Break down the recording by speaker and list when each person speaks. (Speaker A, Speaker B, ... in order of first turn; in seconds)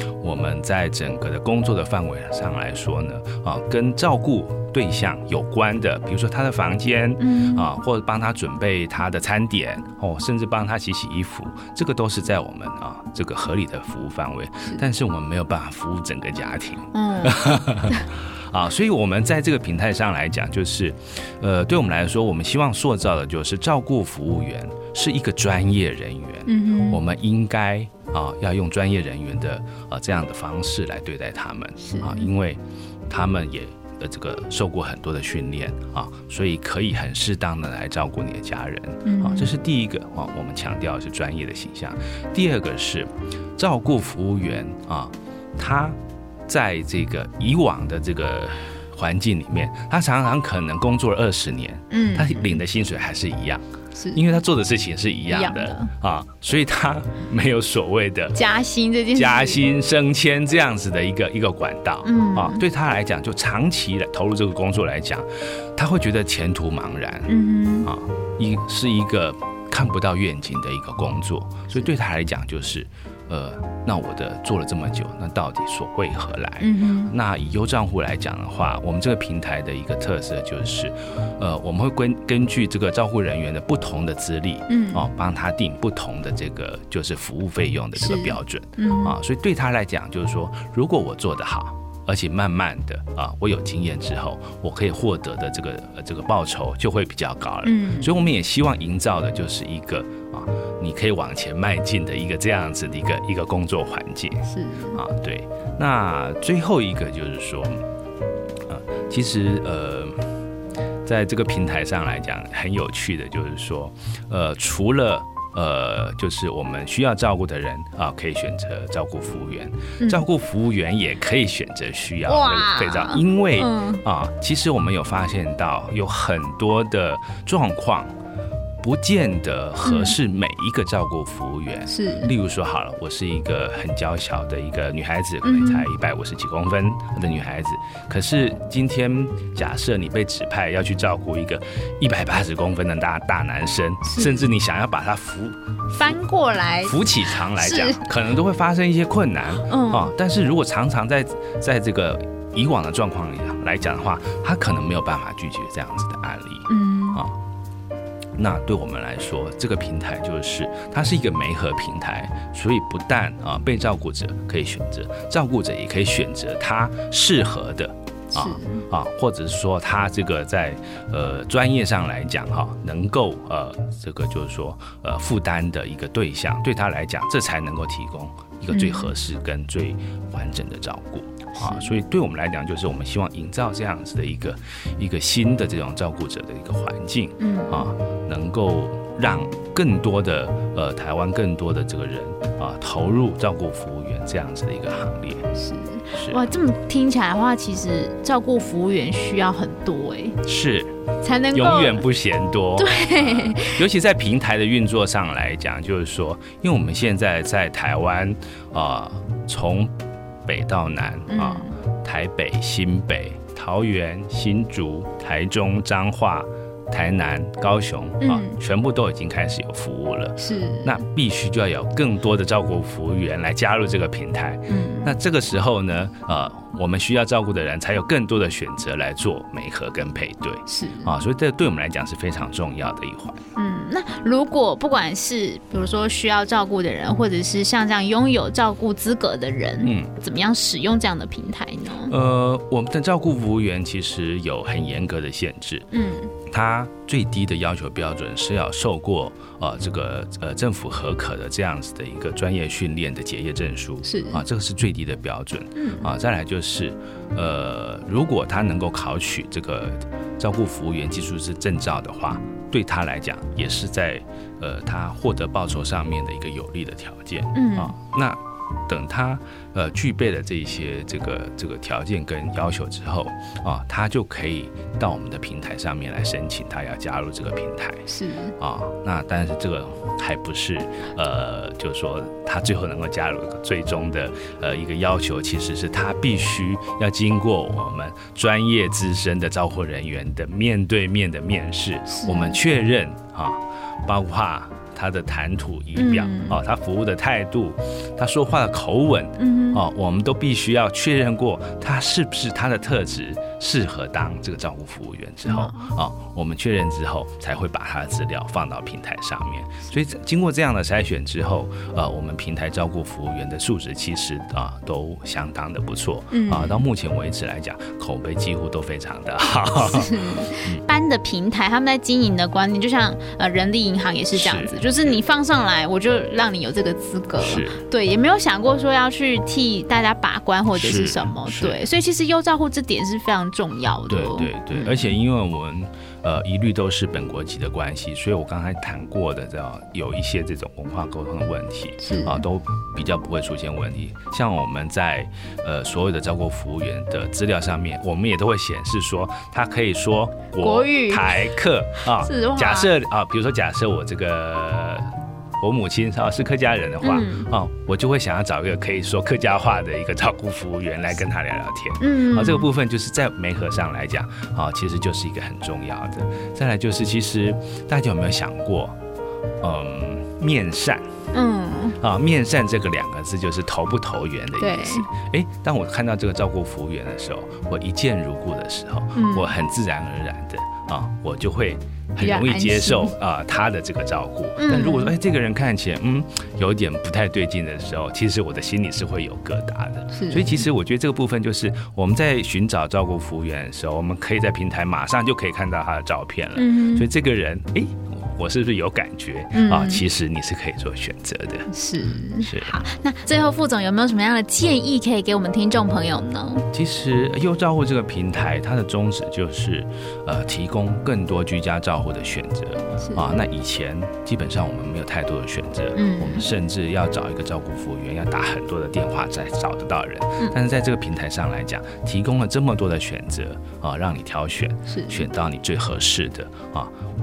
Speaker A: 0.2-58.4, 59.1-67.3, 67.8-107.8, 108.7-110.3, 111.0-128.1, 128.8-146.2, 146.8-157.4, 158.4-195.5, 196.1-196.5, 200.4-201.0, 201.5-209.9, 210.4-233.4, 239.8-240.1, 242.1-245.9, 246.5-278.1, 278.6-320.8, 324.3-325.2, 327.4-327.8, 330.8-331.8, 334.1-355.1, 355.6-369.0, 369.6-371.1, 372.0-401.7, 402.4-402.8, 406.7-426.9
Speaker B: 7.2-7.7, 16.9-18.0, 26.5-27.0, 31.8-32.3, 39.0-39.5, 51.9-52.6, 54.0-54.2, 55.3-55.9, 58.4-59.6, 62.0-62.6, 67.3-67.9, 76.6-77.1, 84.7-85.1, 88.0-89.2, 97.6-98.1, 104.5-105.0, 120.0-120.2, 122.3-124.0, 129.8-130.2, 131.9-132.3, 135.4-135.9, 144.1-144.5, 145.9-147.0, 147.5-148.0, 149.7-150.1, 156.7-157.2, 168.3-168.8, 178.7-179.1, 181.6-181.9, 187.4-187.9, 195.6-200.4, 201.2-202.0, 202.8-203.8, 211.3-211.8, 218.2-218.6, 220.4-221.0, 224.7-225.1, 230.7-231.1, 233.6-242.1, 245.9-246.3, 254.1-254.4, 255.8-256.1, 267.5-268.0, 278.1-278.5, 292.1-292.6, 296.0-296.6, 299.4-299.8, 305.4-305.9, 316.3-316.8, 319.8-335.1, 342.0-342.4, 350.6-351.3, 352.2-352.9, 357.0-357.5, 362.0-362.7, 371.3-372.0, 374.6-375.1, 379.1-379.5, 382.2-383.1, 384.6-385.1, 390.1-390.6, 396.6-397.1, 399.5-400.0, 401.7-406.7, 413.0-413.3, 415.9-416.5, 424.9-425.2